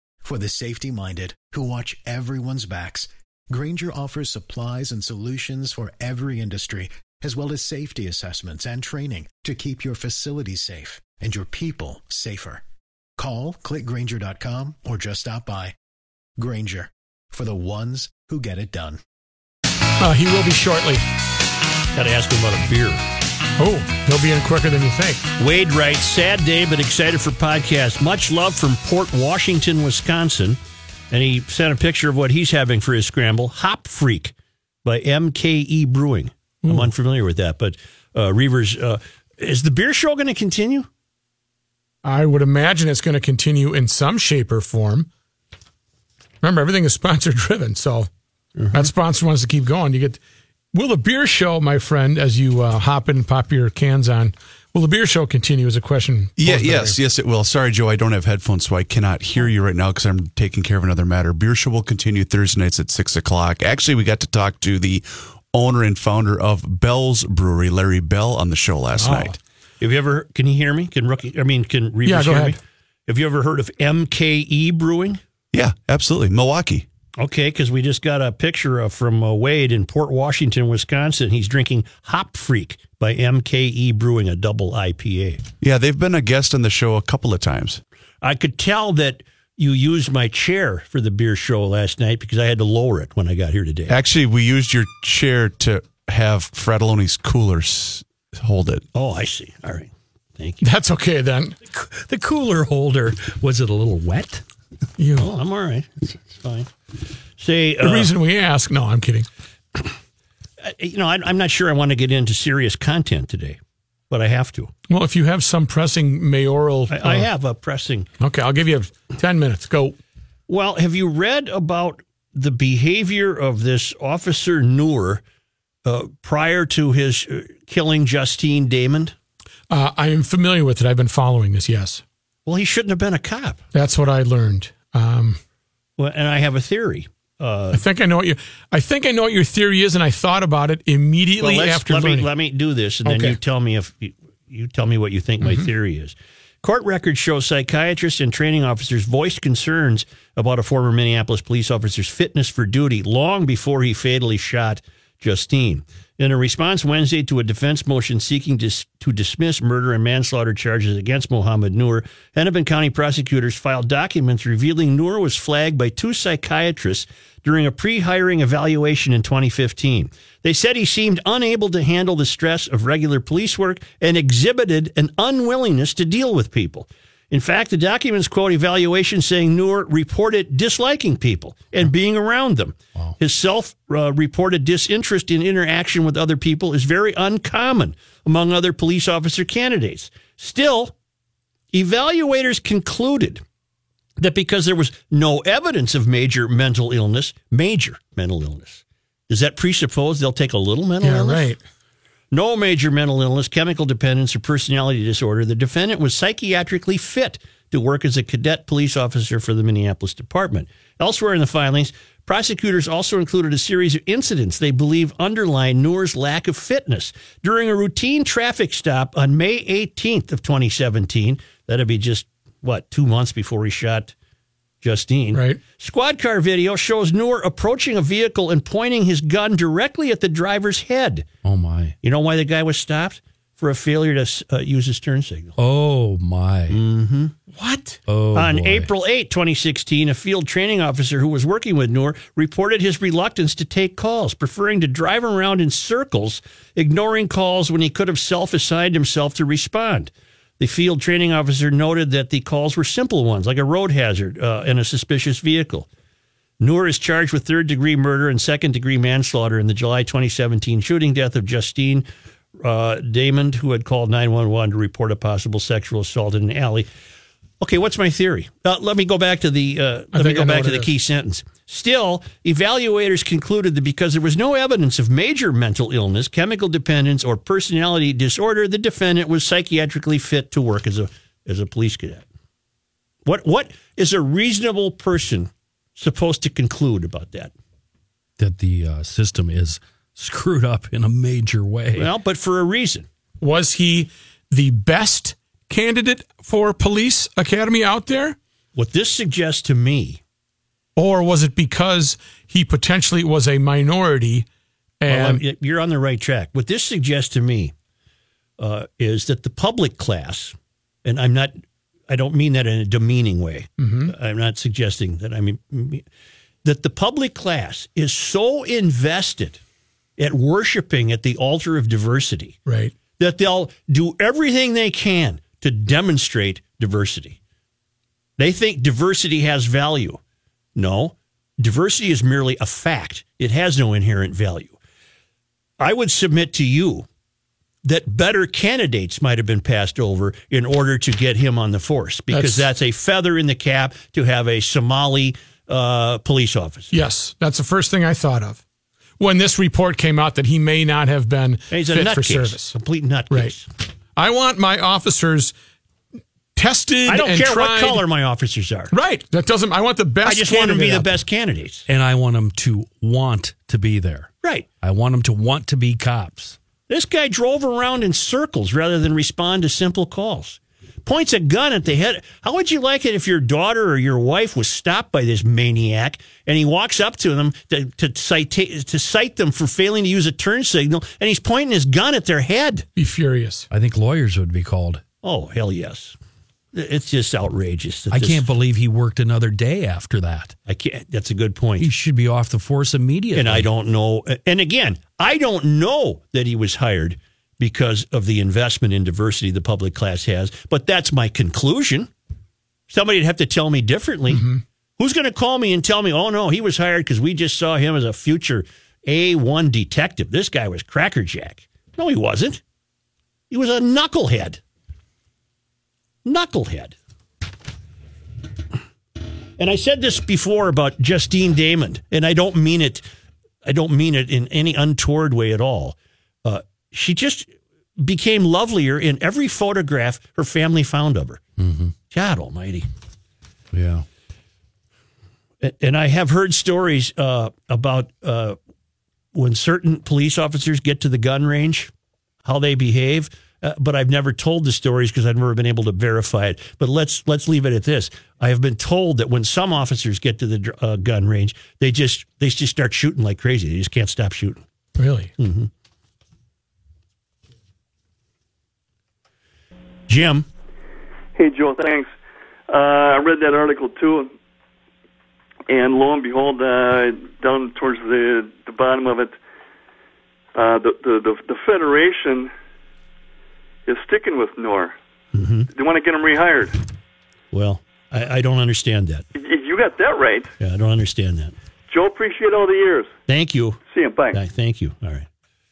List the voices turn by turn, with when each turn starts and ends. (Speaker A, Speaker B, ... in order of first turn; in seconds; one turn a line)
Speaker A: 0.2-12.6
Speaker A: 13.2-15.8
Speaker A: 16.4-19.0
Speaker B: 20.0-21.0
Speaker C: 21.9-23.0
Speaker B: 23.6-25.2
Speaker C: 25.4-30.6
Speaker C: 31.1-34.3
Speaker C: 34.8-40.9
Speaker B: 36.6-36.9
Speaker B: 42.0-45.1
Speaker B: 46.4-48.1
Speaker C: 48.6-48.9
Speaker B: 48.7-50.2
Speaker B: 50.7-57.0
Speaker D: 56.4-69.4
Speaker B: 69.0-69.3
Speaker C: 69.8-75.2
Speaker B: 72.0-72.6
Speaker D: 75.5-76.8
Speaker C: 77.2-85.4
Speaker D: 85.6-87.8
Speaker C: 88.2-93.9
Speaker D: 93.9-98.8
Speaker C: 98.9-100.6
Speaker B: 100.6-101.5
Speaker E: 101.7-104.4
Speaker B: 105.0-105.3
Speaker C: 105.2-106.7
Speaker C: 107.4-108.1
Speaker B: 107.8-109.3
Speaker C: 110.6-113.6
Speaker C: 114.1-114.7
Speaker B: 114.9-117.3
Speaker C: 116.9-118.1
Speaker B: 118.2-120.0
Speaker C: 120.5-125.2
Speaker C: 125.8-129.1
Speaker B: 129.7-132.0
Speaker C: 132.4-133.6
Speaker B: 133.7-135.4
Speaker C: 136.0-137.8
Speaker B: 137.7-142.3
Speaker C: 141.4-190.9
Speaker B: 143.0-143.4
Speaker C: 191.7-193.4
Speaker C: 194.2-201.5
Speaker B: 201.0-201.6
Speaker C: 202.3-224.1
Speaker C: 224.8-231.3
Speaker B: 225.3-225.6
Speaker E: 231.4-231.9
Speaker C: 232.0-235.6
Speaker E: 235.6-236.8
Speaker C: 236.7-237.3
Speaker B: 237.6-237.9
Speaker E: 238.1-238.9
Speaker C: 238.3-255.9
Speaker C: 256.6-262.1
Speaker C: 262.6-266.9
Speaker C: 267.6-282.2
Speaker B: 270.1-270.9
Speaker C: 283.2-287.5
Speaker E: 288.4-292.1
Speaker C: 291.9-293.1
Speaker B: 293.4-298.4
Speaker C: 298.7-300.2
Speaker B: 300.9-304.5
Speaker B: 305.0-305.4
Speaker C: 305.1-307.7
Speaker C: 308.6-316.0
Speaker B: 313.8-314.1
Speaker C: 316.6-319.6
Speaker C: 320.2-322.6
Speaker B: 322.6-322.9
Speaker C: 323.2-327.4
Speaker C: 328.4-330.2
Speaker C: 330.8-334.8
Speaker C: 335.8-337.1
Speaker C: 337.8-346.9
Speaker B: 342.3-342.7
Speaker B: 346.9-348.6
Speaker B: 349.2-352.7
Speaker C: 351.7-353.6
Speaker B: 354.1-355.5
Speaker B: 356.6-358.0
Speaker C: 357.1-358.9
Speaker B: 358.9-361.1
Speaker C: 360.2-361.8
Speaker E: 361.9-364.3
Speaker E: 364.8-366.6
Speaker C: 366.9-382.9
Speaker B: 382.9-383.7
Speaker E: 383.7-385.0
Speaker C: 385.2-386.1
Speaker C: 386.7-388.4
Speaker E: 388.1-390.5
Speaker C: 390.7-391.9
Speaker E: 391.8-393.7
Speaker C: 393.4-402.1
Speaker C: 402.9-404.5
Speaker B: 404.3-404.6
Speaker C: 405.0-412.6
Speaker C: 413.5-414.6
Speaker C: 416.2-416.9
Speaker C: 419.6-423.1
Speaker C: 423.6-431.4
Speaker E: 431.6-431.9
Speaker C: 432.1-432.9
Speaker E: 433.7-434.0
Speaker C: 435.6-438.6
Speaker C: 439.3-441.9
Speaker C: 442.4-454.6
Speaker B: 455.0-455.3
Speaker C: 455.4-455.7
Speaker C: 460.1-460.5
Speaker F: 461.4-462.1
Speaker F: 462.7-464.3
Speaker F: 465.7-469.4
Speaker F: 470.5-472.5
Speaker F: 473.9-474.9
Speaker C: 475.3-475.7
Speaker F: 475.7-476.8
Speaker C: 477.5-479.2
Speaker F: 479.3-480.5
Speaker C: 480.6-481.5
Speaker F: 481.9-483.1
Speaker C: 483.3-483.8
Speaker F: 483.9-484.4
Speaker C: 484.3-485.3